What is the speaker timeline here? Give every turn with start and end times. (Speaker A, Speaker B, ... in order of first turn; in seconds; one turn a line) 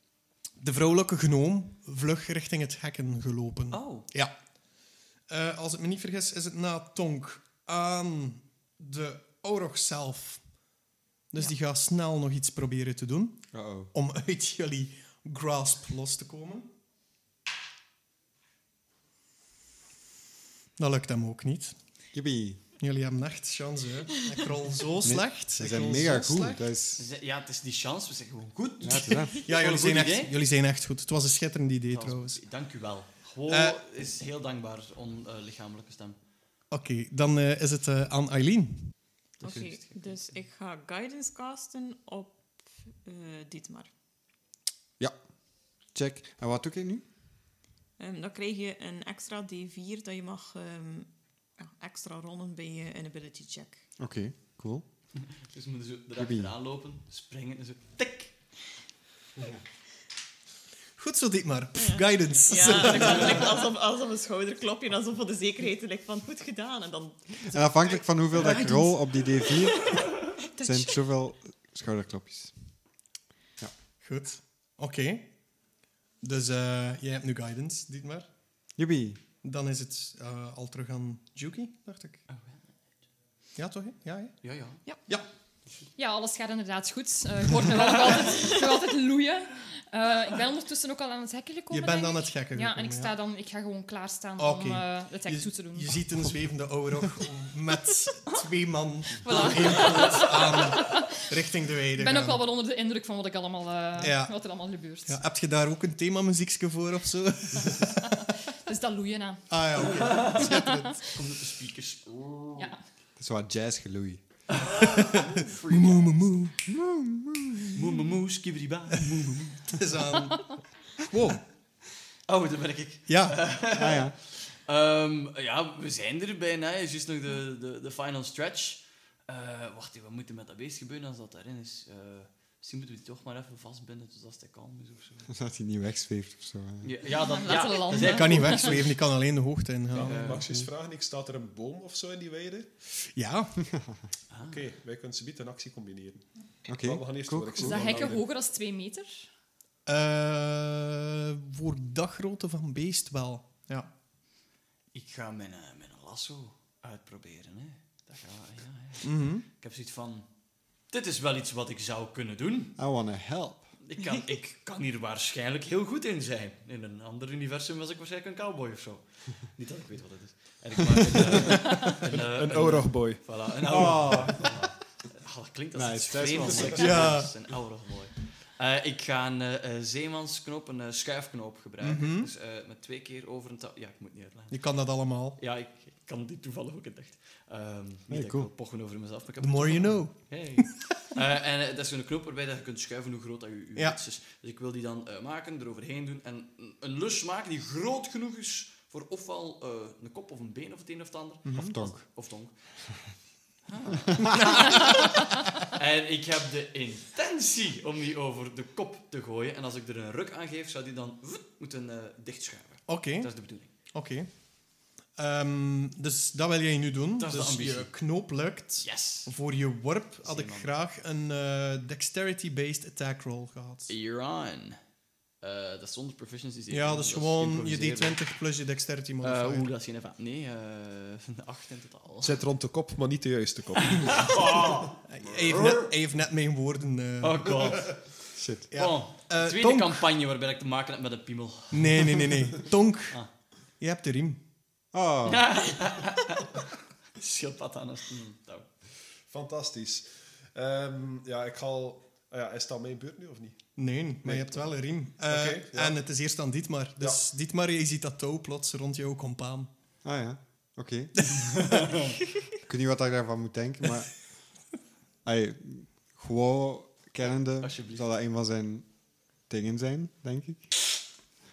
Speaker A: 0.6-4.3
Speaker B: 3.7-4.1
Speaker A: 5.3-10.4
Speaker A: 11.3-16.7
Speaker C: 13.5-13.9
Speaker A: 20.8-21.8
Speaker C: 22.1-22.6
Speaker A: 22.8-26.6
Speaker C: 25.0-27.1
Speaker B: 27.0-30.3
Speaker C: 28.8-29.4
Speaker A: 29.4-32.4
Speaker B: 31.9-36.2
Speaker A: 33.5-33.8
Speaker A: 36.7-38.9
Speaker B: 39.4-40.3
Speaker D: 39.4-43.9
Speaker C: 45.8-47.0
Speaker D: 48.0-53.9
Speaker C: 54.0-54.9
Speaker B: 55.4-58.4
Speaker C: 56.2-56.5
Speaker A: 61.0-63.5
Speaker D: 61.8-68.0
Speaker C: 67.5-72.8
Speaker A: 68.3-68.9
Speaker D: 69.5-71.0
Speaker A: 74.0-75.3
Speaker A: 76.2-78.3
Speaker C: 78.8-79.2
Speaker A: 79.4-82.2
Speaker B: 82.3-82.5
Speaker A: 83.6-84.5
Speaker B: 84.4-84.8
Speaker E: 86.0-96.0
Speaker A: 91.7-93.1
Speaker A: 94.4-102.4
Speaker E: 99.2-101.1
Speaker B: 99.8-100.2
Speaker E: 102.0-105.2
Speaker A: 104.0-104.3
Speaker A: 105.1-108.2
Speaker E: 108.5-111.0
Speaker A: 109.5-111.0
Speaker B: 109.9-112.7
Speaker C: 113.2-114.2
Speaker B: 114.5-116.2
Speaker A: 115.1-116.6
Speaker C: 116.7-117.8
Speaker B: 117.7-119.8
Speaker A: 119.1-121.4
Speaker B: 122.3-135.3
Speaker A: 123.1-123.4
Speaker C: 123.7-124.2
Speaker C: 135.3-136.9
Speaker B: 136.8-138.9
Speaker E: 137.3-138.8
Speaker A: 137.9-140.6
Speaker F: 139.9-142.7
Speaker B: 139.9-140.4
Speaker A: 143.0-143.7
Speaker B: 144.3-144.7
Speaker F: 144.4-148.2
Speaker C: 146.7-148.2
Speaker E: 147.6-149.3
Speaker A: 149.9-153.9
Speaker B: 154.9-160.3
Speaker A: 159.0-159.4
Speaker B: 160.9-162.8
Speaker C: 162.8-163.7
Speaker B: 163.8-184.6
Speaker F: 171.5-174.2
Speaker C: 173.7-174.6
Speaker C: 175.7-177.2
Speaker F: 176.3-177.1
Speaker A: 176.8-177.3
Speaker A: 181.8-182.3
Speaker A: 184.5-185.4
Speaker B: 185.4-202.8
Speaker C: 188.1-188.5
Speaker A: 189.4-190.9
Speaker C: 201.5-202.0
Speaker B: 203.7-213.7
Speaker C: 204.1-204.4
Speaker A: 212.9-214.6
Speaker A: 215.1-223.9
Speaker B: 217.2-217.9
Speaker B: 218.8-219.3
Speaker B: 220.2-220.7
Speaker B: 223.9-224.8
Speaker B: 225.4-228.2
Speaker A: 226.7-229.7
Speaker B: 229.2-232.4
Speaker F: 232.2-234.4
Speaker B: 233.8-235.9
Speaker A: 235.1-237.9
Speaker B: 237.2-238.2
Speaker C: 238.4-238.7
Speaker A: 238.7-240.1
Speaker B: 238.7-242.2
Speaker A: 241.7-243.2
Speaker A: 243.8-244.4
Speaker C: 244.9-245.6
Speaker B: 245.2-248.7
Speaker F: 249.3-253.7
Speaker A: 253.8-259.7
Speaker F: 254.2-254.7
Speaker F: 255.3-256.0
Speaker C: 260.0-261.4
Speaker C: 262.6-264.4
Speaker C: 265.2-268.9
Speaker B: 267.6-268.1
Speaker C: 269.5-270.7